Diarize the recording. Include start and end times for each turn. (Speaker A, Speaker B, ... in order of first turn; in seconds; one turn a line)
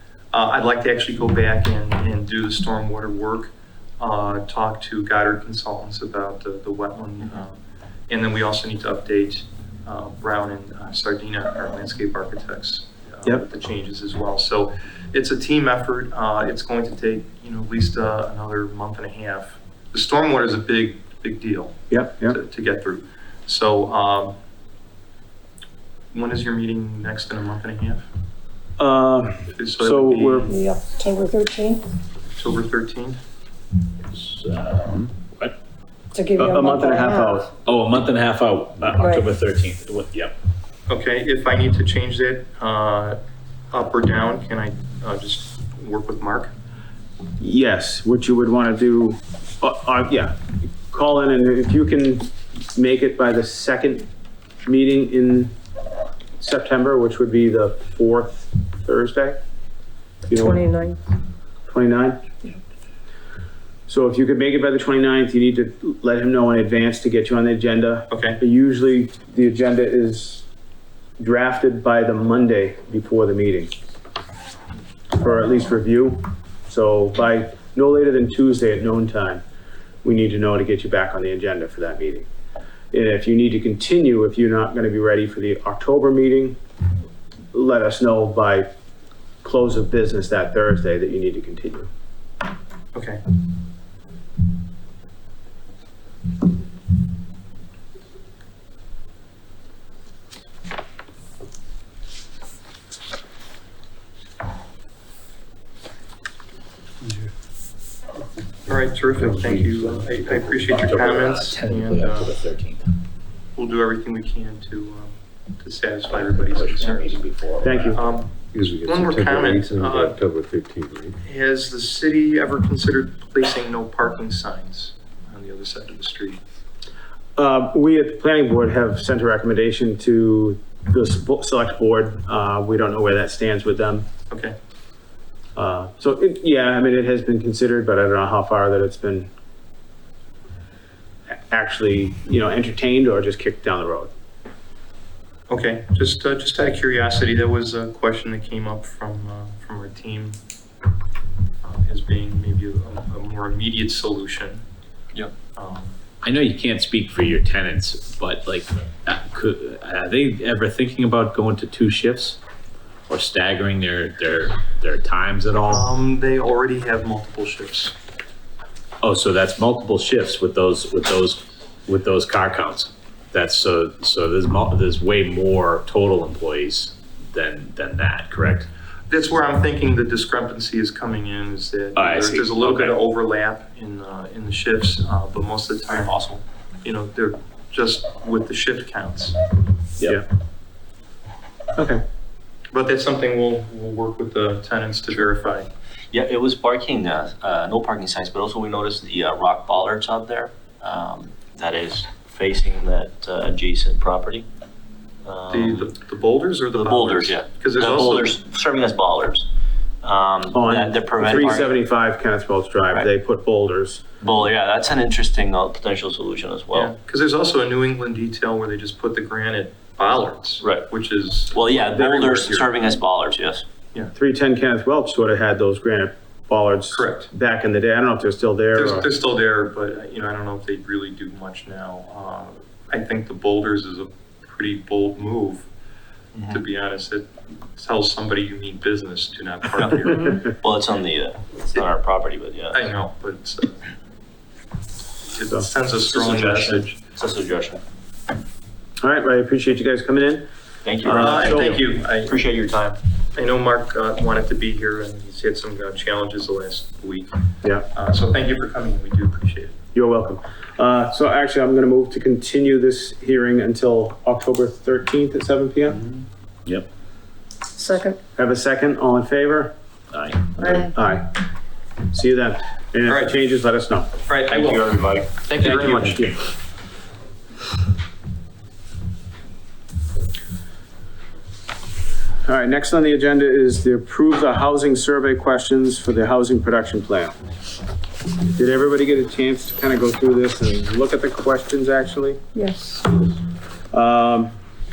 Speaker A: 0.3-24.4
Speaker B: 21.9-22.4
Speaker A: 26.1-28.1
Speaker B: 28.8-30.5
Speaker A: 29.5-30.5
Speaker C: 30.5-31.8
Speaker A: 32.4-33.2
Speaker D: 34.1-35.5
Speaker C: 36.1-37.5
Speaker B: 36.4-37.5
Speaker D: 37.6-40.3
Speaker C: 39.0-39.2
Speaker A: 40.9-43.2
Speaker A: 43.7-46.5
Speaker B: 47.4-54.1
Speaker B: 54.6-55.5
Speaker B: 56.4-59.4
Speaker B: 60.3-60.6
Speaker C: 60.3-61.0
Speaker B: 61.7-62.2
Speaker B: 63.9-70.5
Speaker A: 68.1-68.4
Speaker B: 71.2-73.7
Speaker B: 75.1-79.4
Speaker B: 80.0-82.2
Speaker B: 82.9-86.6
Speaker B: 87.5-88.7
Speaker B: 89.4-91.9
Speaker A: 92.9-93.2
Speaker A: 108.7-112.3
Speaker D: 110.7-112.9
Speaker A: 113.5-117.2
Speaker D: 116.1-118.0
Speaker B: 117.6-118.0
Speaker A: 117.9-120.2
Speaker E: 118.5-121.2
Speaker A: 121.2-126.4
Speaker B: 127.3-134.1
Speaker A: 134.3-134.6
Speaker B: 135.6-139.3
Speaker B: 141.5-144.1
Speaker A: 145.5-150.4
Speaker A: 151.6-154.6
Speaker A: 155.6-155.9
Speaker D: 156.2-162.4
Speaker D: 163.1-165.9
Speaker A: 165.7-167.9
Speaker D: 169.0-178.7
Speaker A: 179.1-186.2
Speaker D: 181.9-182.9
Speaker F: 185.9-186.4
Speaker A: 186.8-189.3
Speaker B: 191.8-192.0
Speaker A: 192.7-195.7
Speaker F: 196.1-204.5
Speaker F: 205.2-205.9
Speaker A: 205.5-208.4
Speaker F: 206.7-209.5
Speaker F: 210.0-211.7
Speaker B: 210.5-214.0
Speaker F: 214.2-216.9
Speaker A: 216.7-222.7
Speaker F: 220.6-220.9
Speaker F: 221.5-223.6
Speaker B: 221.9-222.4
Speaker B: 224.1-229.1
Speaker A: 226.9-227.3
Speaker A: 228.7-235.7
Speaker F: 236.3-236.6
Speaker A: 236.4-240.5
Speaker F: 239.8-242.9
Speaker A: 242.7-243.8
Speaker A: 245.2-247.0
Speaker F: 246.1-247.8
Speaker B: 249.0-250.5
Speaker F: 250.8-253.0
Speaker B: 251.0-251.8
Speaker A: 251.1-252.3
Speaker A: 253.3-257.3
Speaker A: 257.9-259.7
Speaker B: 259.9-266.0
Speaker C: 267.8-268.2
Speaker B: 268.4-269.7
Speaker D: 270.1-270.6
Speaker C: 270.6-270.9
Speaker B: 270.6-271.4
Speaker B: 272.1-274.1
Speaker A: 273.1-273.4
Speaker A: 274.2-276.3
Speaker F: 274.5-276.0
Speaker B: 275.6-276.4
Speaker B: 282.4-287.3
Speaker B: 288.5-292.4
Speaker C: 292.5-293.0
Speaker B: 293.9-294.5